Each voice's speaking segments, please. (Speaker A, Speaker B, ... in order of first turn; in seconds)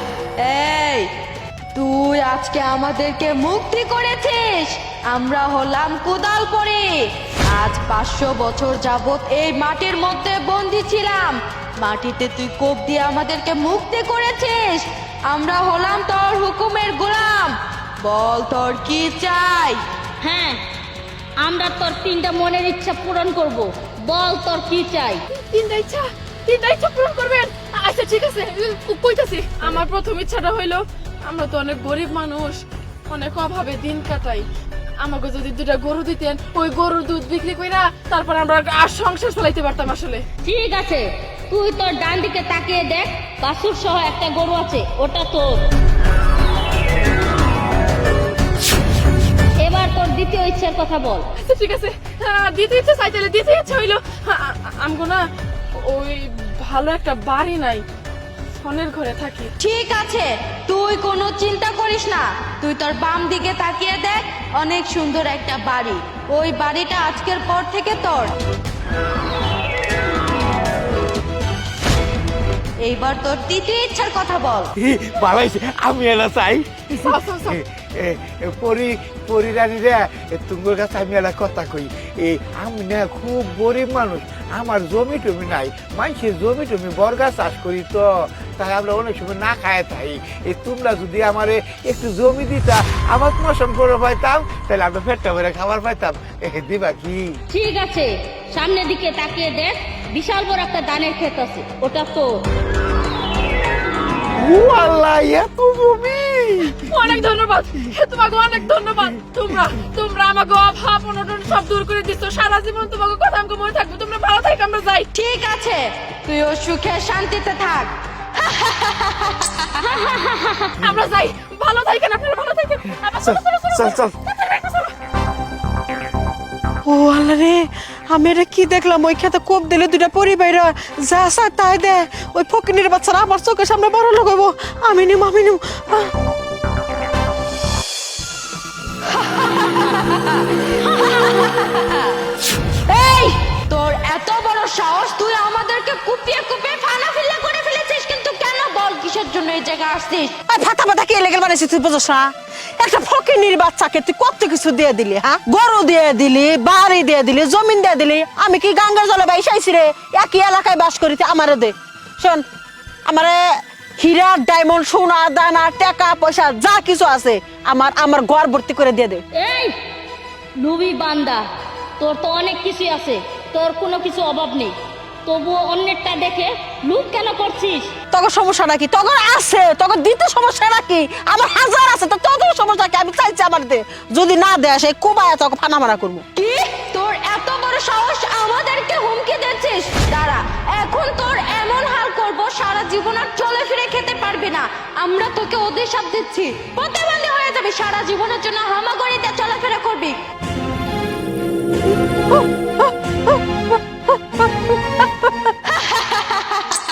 Speaker A: 0.4-1.1, 1.7-19.8, 59.6-68.3, 72.8-74.7, 115.1-119.7, 139.3-142.0, 142.9-150.3, 186.3-200.2, 205.9-206.4
Speaker B: 20.2-20.6, 21.4-25.2, 40.4-45.6, 49.6-51.3, 97.5-102.3, 119.8-120.7, 169.3-169.7, 170.6-171.4, 172.0-174.7, 175.2-177.9
Speaker C: 25.3-34.5, 35.0-40.2, 51.4-55.2, 55.8-57.8, 58.6-59.5, 77.1-77.6, 106.9-115.1, 120.8-124.9
Speaker D: 74.8-97.4, 104.4-106.8, 123.3-124.1
Speaker E: 126.9-136.1, 150.5-162.4, 163.1-163.4, 164.0-169.2, 178.1-186.2